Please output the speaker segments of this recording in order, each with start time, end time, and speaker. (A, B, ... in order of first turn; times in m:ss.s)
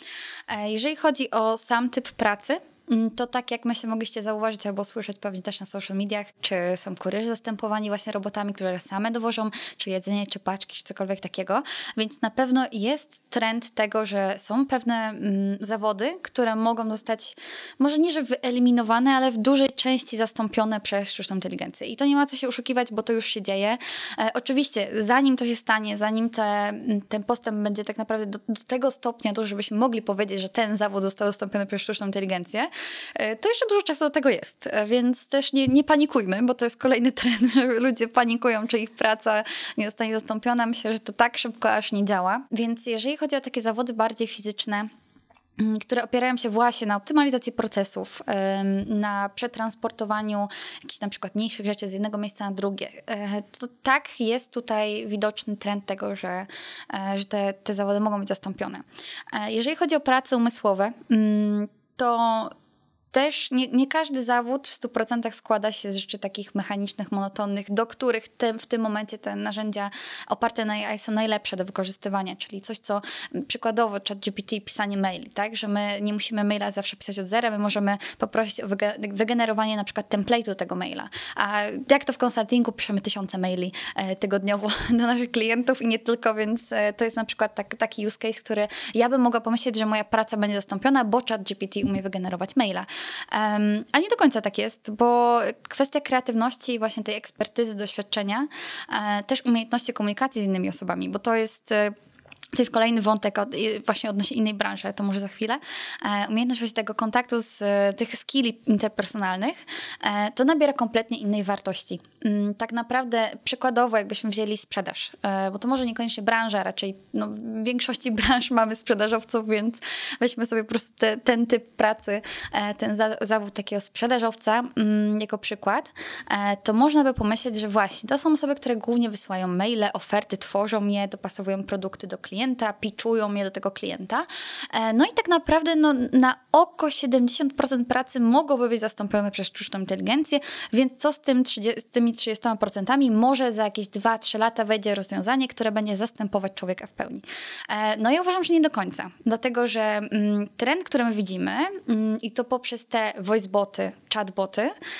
0:00.5-0:44.9 A
0:45.6-1:02.5 A
1:03.1-1:41.9 A
1:42.5-2:34.7 A